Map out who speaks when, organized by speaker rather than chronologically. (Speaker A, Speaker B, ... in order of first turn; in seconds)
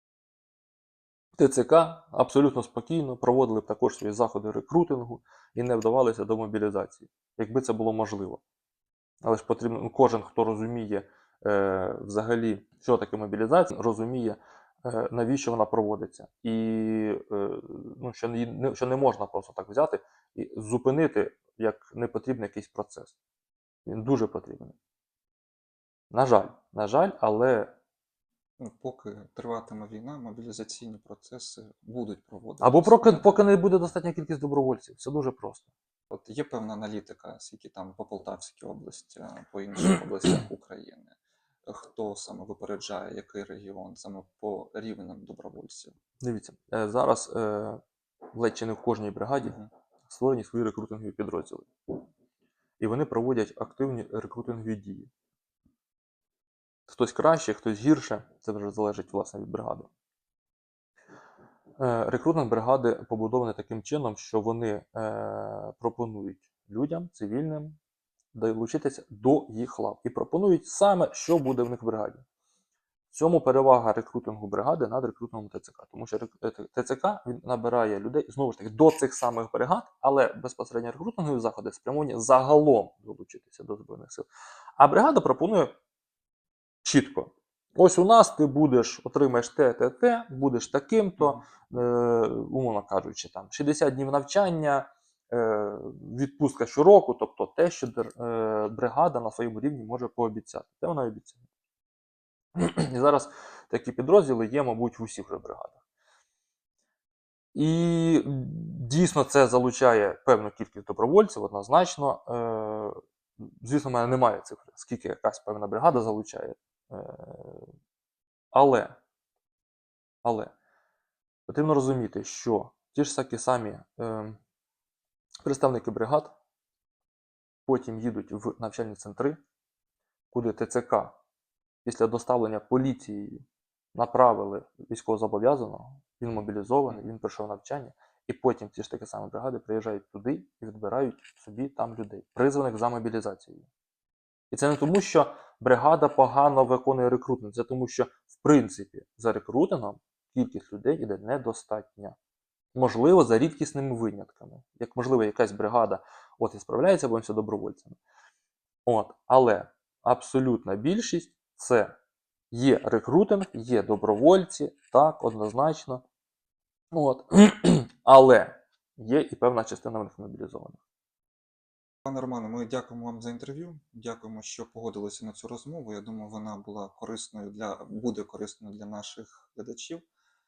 Speaker A: 1.4-8.4, 9.2-23.1, 23.9-24.7, 26.1-27.7, 32.6-35.7, 46.2-47.8, 48.3-51.7, 52.8-55.1, 56.9-59.9, 61.8-67.8, 68.3-72.2, 73.1-85.7, 86.8-101.4, 102.5-105.8, 107.5-117.7, 118.5-119.0, 120.2-120.5, 121.5-124.4, 125.4-126.3, 127.7-129.4, 130.3-131.2, 131.8-143.7, 144.5-152.2, 152.7-158.0, 158.8-161.9, 162.5-166.0, 166.9-170.8
Speaker B: 28.6-33.5, 36.1-46.0, 49.4-49.7, 91.2-91.4, 172.0-180.0